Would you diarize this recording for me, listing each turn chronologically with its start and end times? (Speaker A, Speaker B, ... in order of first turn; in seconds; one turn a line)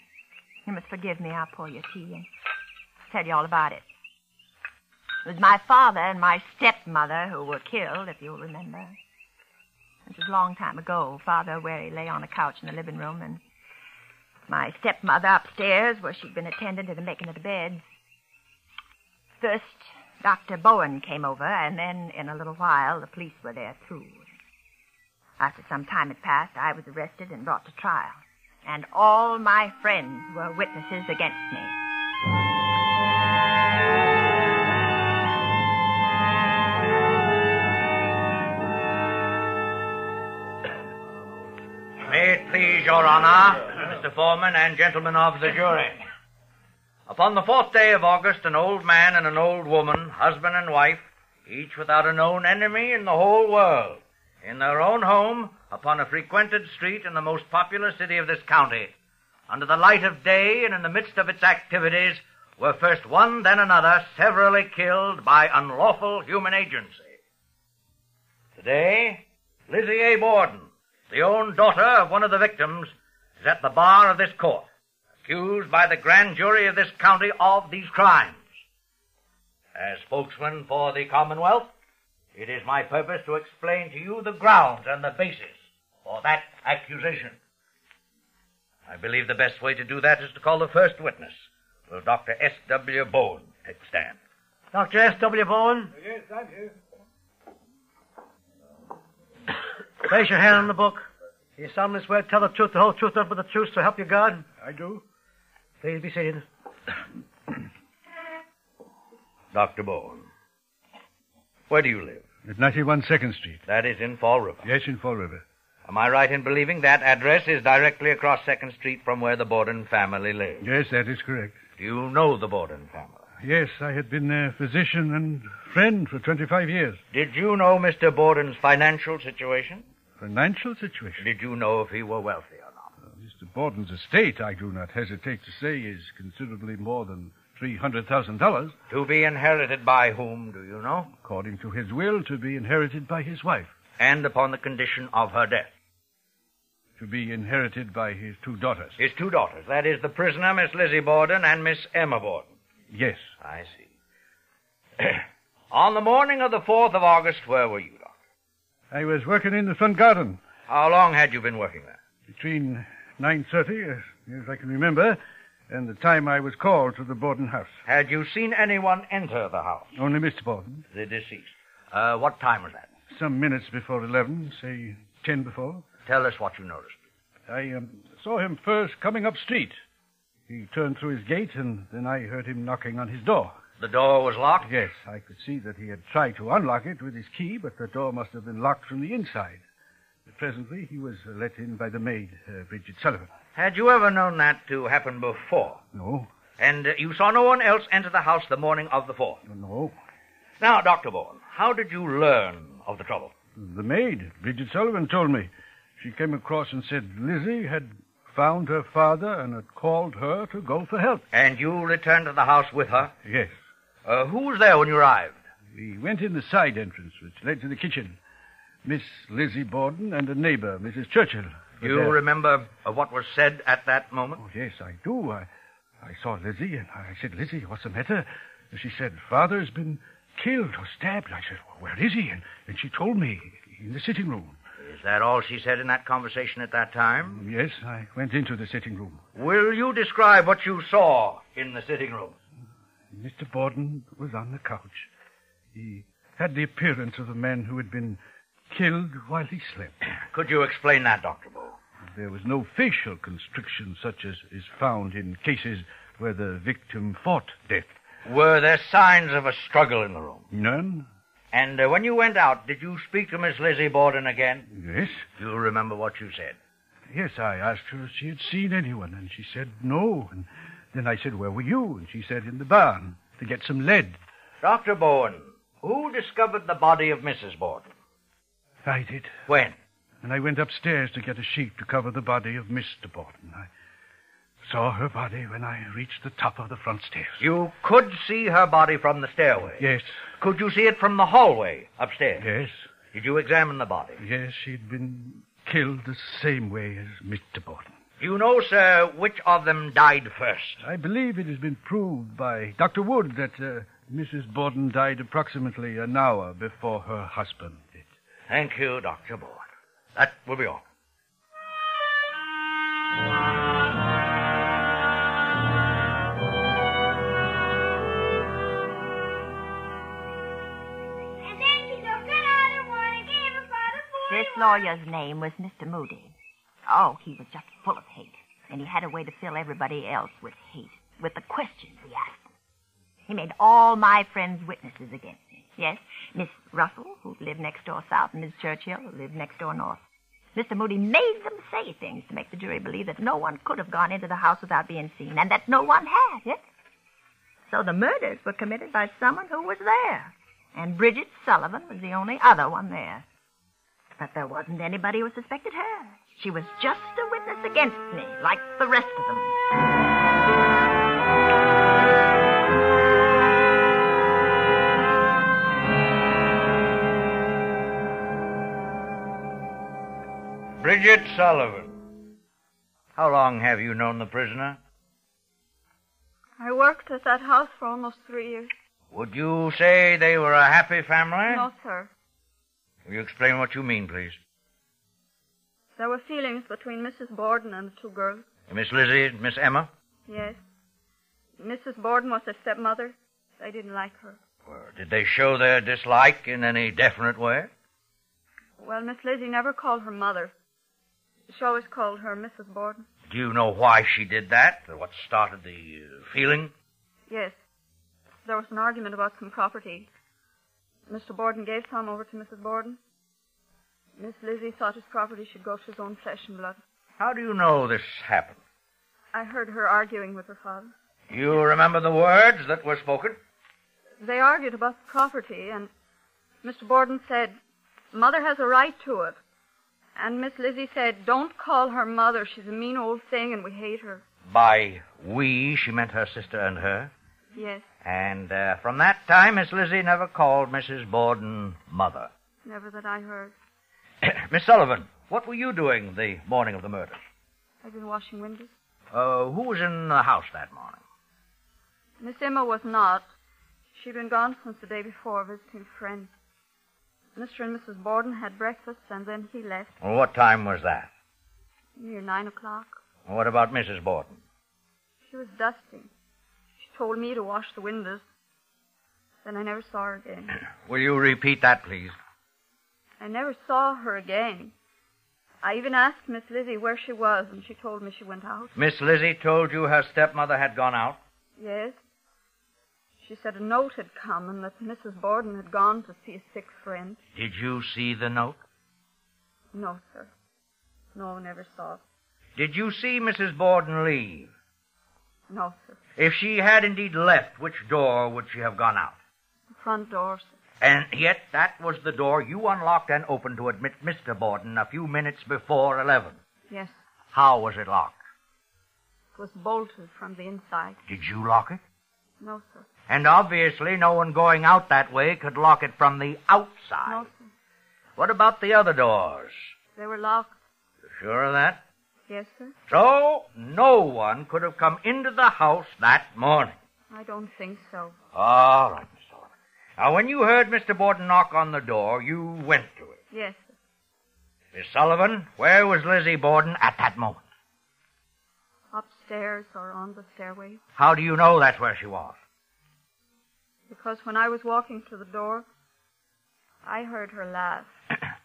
Speaker A: 0.7-2.3
Speaker A: 3.1-3.8
Speaker A: 5.2-9.0
Speaker A: 10.1-13.4
Speaker A: 14.5-17.8
Speaker A: 19.4-24.2
Speaker A: 25.4-31.8
Speaker B: 42.0-46.0
Speaker B: 47.1-58.9
Speaker B: 59.5-67.2
Speaker B: 68.6-74.7
Speaker B: 75.2-78.5
Speaker B: 79.7-81.7
Speaker B: 82.3-87.4
Speaker B: 88.9-94.2
Speaker C: 94.7-95.9
Speaker D: 95.9-96.8
Speaker C: 100.0-104.5
Speaker D: 104.6-105.0
Speaker C: 105.8-106.5
Speaker B: 109.5-110.3
Speaker B: 111.7-112.2
Speaker D: 112.4-113.6
Speaker B: 113.7-114.7
Speaker D: 114.6-115.4
Speaker B: 115.9-120.6
Speaker D: 120.6-121.6
Speaker B: 121.8-123.2
Speaker D: 123.4-127.0
Speaker B: 127.1-129.8
Speaker D: 130.2-131.2
Speaker B: 131.2-132.9
Speaker D: 133.1-138.7
Speaker B: 138.9-141.1
Speaker D: 141.2-143.7
Speaker B: 144.0-145.7
Speaker D: 147.0-148.9
Speaker B: 149.0-152.5
Speaker D: 152.9-153.2
Speaker B: 153.4-153.9
Speaker B: 155.0-158.1
Speaker D: 158.9-160.4
Speaker B: 160.7-162.0
Speaker D: 162.3-167.8
Speaker B: 167.8-169.9
Speaker D: 169.9-170.8
Speaker B: 170.9-172.9
Speaker D: 173.1-175.8
Speaker B: 176.1-177.0
Speaker D: 177.5-179.8
Speaker D: 180.5-183.6
Speaker B: 183.8-184.7
Speaker D: 184.6-189.6
Speaker D: 190.3-193.3
Speaker B: 193.5-195.8
Speaker D: 195.9-196.3
Speaker B: 196.6-199.4
Speaker D: 199.4-199.9
Speaker B: 200.6-203.3
Speaker D: 203.6-211.2
Speaker B: 211.3-213.1
Speaker D: 213.2-213.5
Speaker B: 214.0-215.4
Speaker D: 215.7-218.2
Speaker D: 218.8-222.2
Speaker B: 221.8-224.4
Speaker D: 224.4-225.5
Speaker D: 226.0-234.6
Speaker B: 234.8-237.4
Speaker D: 237.3-239.2
Speaker B: 239.3-242.3
Speaker D: 243.1-245.1
Speaker D: 245.7-249.9
Speaker B: 250.0-251.8
Speaker D: 252.1-257.9
Speaker B: 258.2-260.4
Speaker D: 260.5-261.1
Speaker B: 261.5-264.7
Speaker D: 264.7-265.2
Speaker B: 265.4-266.6
Speaker D: 267.1-274.2
Speaker B: 274.6-277.9
Speaker D: 278.8-279.4
Speaker B: 279.5-279.8
Speaker D: 280.2-283.7
Speaker D: 284.6-287.4
Speaker B: 287.4-289.8
Speaker D: 289.6-290.2
Speaker B: 290.4-292.5
Speaker D: 292.4-292.8
Speaker B: 293.1-294.2
Speaker D: 294.2-297.9
Speaker B: 298.2-300.8
Speaker D: 300.8-308.1
Speaker B: 308.5-309.6
Speaker B: 310.1-310.8
Speaker E: 321.4-324.8
Speaker A: 324.3-326.3
Speaker A: 326.9-332.4
Speaker A: 333.3-340.0
Speaker A: 340.5-346.6
Speaker A: 347.7-353.2
Speaker A: 354.2-359.6
Speaker B: 370.8-371.9
Speaker B: 373.1-374.8
Speaker F: 376.6-378.7
Speaker B: 379.1-381.7
Speaker F: 381.5-382.1
Speaker B: 383.1-384.4
Speaker F: 385.9-388.4
Speaker B: 388.7-389.9
Speaker F: 390.3-390.6
Speaker F: 391.6-394.4
Speaker B: 394.7-397.7
Speaker F: 398.8-400.5
Speaker F: 401.5-403.0
Speaker B: 403.3-406.7
Speaker F: 407.3-407.6
Speaker F: 408.4-410.1
Speaker F: 411.1-413.0
Speaker F: 414.2-416.8
Speaker B: 417.2-418.6
Speaker F: 419.3-420.9
Speaker B: 421.3-423.4
Speaker F: 424.2-425.9
Speaker F: 426.6-427.6
Speaker F: 428.1-429.4
Speaker F: 430.1-434.2
Speaker B: 434.5-437.1
Speaker F: 437.5-437.8
Speaker B: 438.0-442.3
Speaker F: 442.6-443.5
Speaker B: 444.2-447.2
Speaker F: 447.8-448.7
Speaker B: 449.1-451.0
Speaker F: 452.2-453.3
Speaker F: 453.9-456.3
Speaker F: 457.3-459.9
Speaker B: 460.0-461.1
Speaker F: 462.0-463.0
Speaker B: 463.3-464.4
Speaker F: 465.2-466.1
Speaker F: 466.8-468.2
Speaker F: 469.4-470.5
Speaker B: 470.8-472.1
Speaker F: 473.2-474.7
Speaker F: 475.6-478.7
Speaker B: 478.8-481.2
Speaker F: 481.6-482.0
Speaker F: 483.2-487.2
Speaker B: 487.3-488.6
Speaker F: 489.7-490.3
Speaker F: 491.1-492.0
Speaker B: 492.6-494.5
Speaker F: 495.5-496.0
Speaker B: 496.1-499.2
Speaker F: 499.7-500.5
Speaker B: 500.8-506.4
Speaker F: 506.7-507.0
Speaker B: 507.3-508.1
Speaker F: 509.3-511.0
Speaker B: 511.1-511.8
Speaker F: 512.4-512.9
Speaker B: 513.1-517.3
Speaker F: 517.0-517.5
Speaker B: 518.1-519.5
Speaker F: 520.0-520.5
Speaker B: 521.2-521.8
Speaker F: 522.3-522.7
Speaker B: 522.9-526.8
Speaker F: 527.1-528.1
Speaker B: 528.3-533.2
Speaker F: 533.3-533.7
Speaker B: 534.7-537.4
Speaker F: 538.9-540.8
Speaker B: 541.0-542.4
Speaker F: 543.9-545.6
Speaker F: 546.8-547.9